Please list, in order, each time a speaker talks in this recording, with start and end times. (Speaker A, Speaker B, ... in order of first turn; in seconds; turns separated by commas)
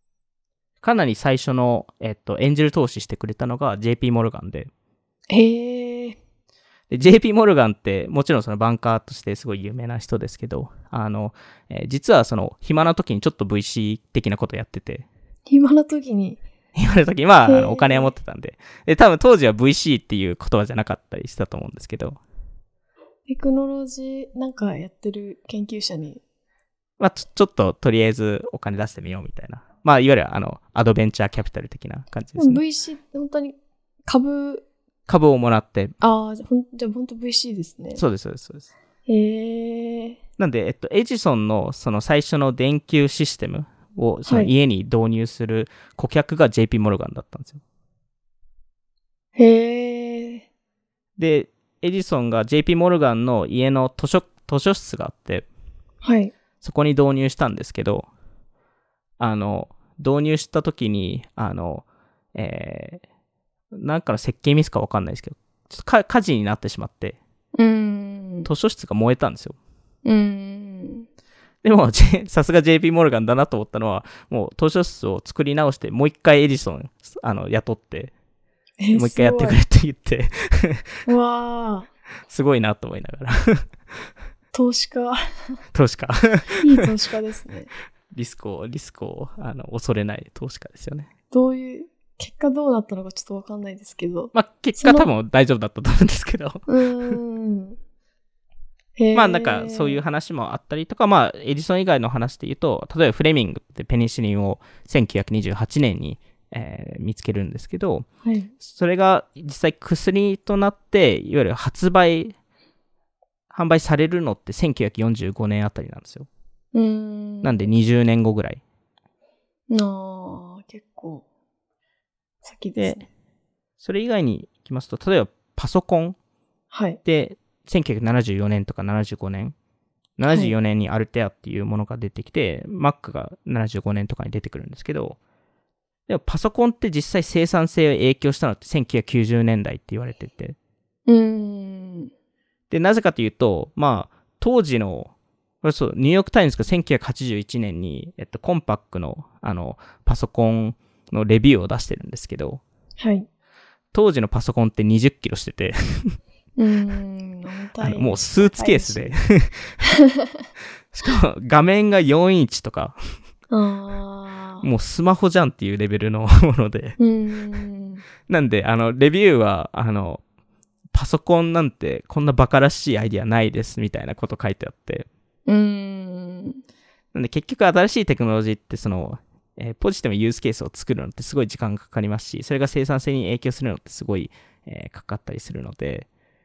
Speaker A: 0.8-4.7, Speaker B: 5.3-6.2, Speaker A: 6.9-15.1, Speaker B: 15.5-16.4, Speaker A: 16.7-22.2, Speaker B: 17.4-18.1, Speaker B: 23.3-26.2, Speaker A: 27.0-32.6, Speaker B: 32.4-33.5, Speaker B: 34.1-34.6, Speaker A: 35.1-35.9, Speaker B: 36.0-38.0, Speaker A: 37.9-38.7, Speaker B: 39.1-40.2, Speaker A: 40.4-47.6, Speaker B: 44.2-44.5, Speaker B: 49.4-50.4, Speaker A: 51.2-55.5, Speaker B: 56.0-56.3, Speaker A: 56.6-58.1, Speaker A: 59.2-63.0, Speaker A: 63.7-67.2, Speaker B: 67.5-68.5, Speaker A: 68.4-69.6, Speaker B: 70.0-71.1, Speaker A: 71.6-78.1, Speaker B: 78.8-79.6, Speaker A: 78.9-80.9, Speaker B: 81.0-81.9, Speaker A: 82.3-83.7, Speaker B: 84.5-85.2, Speaker A: 85.7-86.8, Speaker B: 86.6-87.7, Speaker A: 88.1-91.1, Speaker B: 91.3-95.1, Speaker A: 94.3-97.2, Speaker B: 96.7-97.8, Speaker B: 99.0-100.0, Speaker A: 99.1-108.1, Speaker B: 108.2-108.5, Speaker A: 108.6-112.3, Speaker A: 113.5-116.3, Speaker B: 116.7-117.7, Speaker A: 117.4-118.6, Speaker B: 119.7-121.2, Speaker B: 122.4-123.1, Speaker A: 122.8-123.0, Speaker A: 123.8-126.2, Speaker B: 126.7-127.0, Speaker A: 127.0-129.5, Speaker A: 130.2-135.2, Speaker B: 130.3-130.5, Speaker A: 136.1-140.6, Speaker B: 141.1-142.1, Speaker A: 142.7-145.1, Speaker A: 145.6-152.6, Speaker B: 153.0-153.3, Speaker A: 153.9-156.2, Speaker B: 156.6-159.2, Speaker A: 157.8-159.8, Speaker B: 159.8-160.4, Speaker A: 160.9-163.0, Speaker B: 163.5-164.6, Speaker A: 164.6-167.0, Speaker B: 167.0-168.1, Speaker A: 168.3-170.2, Speaker A: 170.9-175.1, Speaker B: 175.5-176.6, Speaker A: 177.1-186.1